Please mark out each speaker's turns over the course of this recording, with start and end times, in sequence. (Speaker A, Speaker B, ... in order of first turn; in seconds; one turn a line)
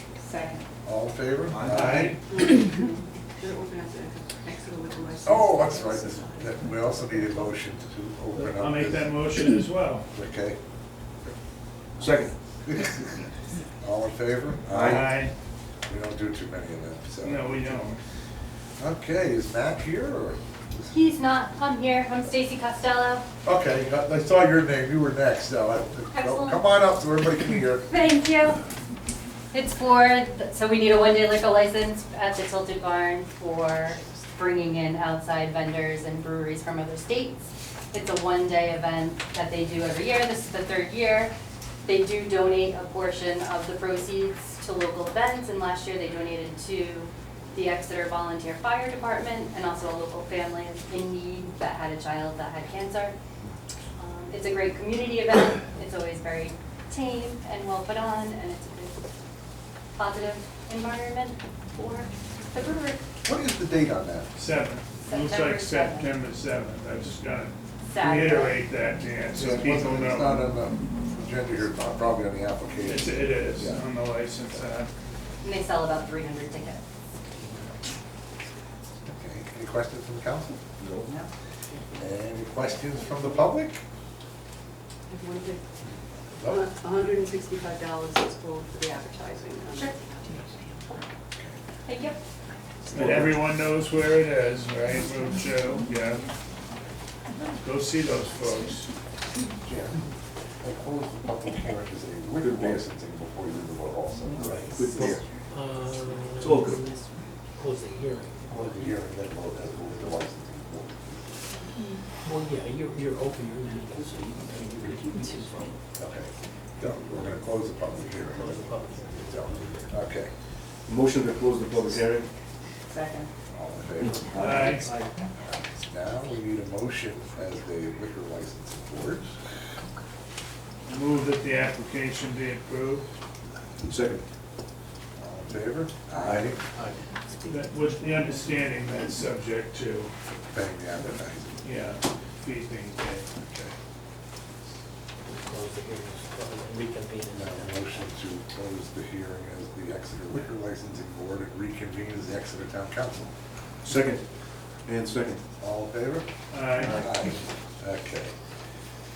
Speaker A: 0.8-2.2
Speaker B: 1.6-2.3
Speaker C: 2.3-7.5
Speaker A: 5.2-9.2
Speaker B: 8.3-10.1
Speaker A: 10.1-10.6
Speaker D: 12.0-12.3
Speaker A: 12.6-13.2
Speaker A: 13.8-15.2
Speaker D: 14.7-15.1
Speaker B: 14.8-15.3
Speaker A: 15.9-17.9
Speaker B: 17.2-18.0
Speaker A: 18.8-20.9
Speaker E: 20.9-23.2
Speaker A: 23.4-27.9
Speaker E: 26.1-26.6
Speaker E: 27.9-28.6
Speaker E: 29.5-41.3
Speaker E: 41.9-53.2
Speaker E: 54.0-59.1
Speaker E: 60.0-63.0
Speaker A: 63.2-64.3
Speaker B: 64.3-70.5
Speaker E: 65.0-66.1
Speaker E: 67.9-68.6
Speaker A: 69.3-73.8
Speaker B: 72.8-74.9
Speaker E: 75.4-76.8
Speaker A: 79.0-80.6
Speaker D: 80.8-81.1
Speaker A: 82.0-83.8
Speaker C: 85.1-85.6
Speaker A: 86.4-86.6
Speaker C: 86.5-90.4
Speaker E: 89.7-90.0
Speaker A: 91.4-91.6
Speaker E: 91.9-92.2
Speaker B: 92.9-96.3
Speaker D: 92.9-93.5
Speaker B: 97.6-98.9
Speaker A: 99.6-100.0
Speaker A: 100.6-105.2
Speaker D: 102.4-102.9
Speaker D: 104.7-105.2
Speaker F: 105.5-107.0
Speaker D: 106.4-106.9
Speaker F: 107.5-108.8
Speaker A: 108.5-111.4
Speaker F: 112.2-115.8
Speaker A: 116.0-120.3
Speaker F: 118.0-119.9
Speaker D: 120.9-122.3
Speaker A: 123.5-129.3
Speaker D: 124.0-125.0
Speaker B: 124.4-124.9
Speaker B: 130.9-133.1
Speaker D: 133.8-134.2
Speaker A: 135.2-136.6
Speaker D: 136.2-136.5
Speaker F: 136.7-137.1
Speaker B: 137.5-140.1
Speaker A: 140.5-141.7
Speaker B: 141.6-143.7
Speaker F: 145.3-148.1
Speaker A: 147.3-153.3
Speaker D: 153.8-154.2
Speaker D: 154.9-155.4
Speaker A: 155.6-158.3
Speaker B: 156.5-157.0
Speaker D: 156.8-157.3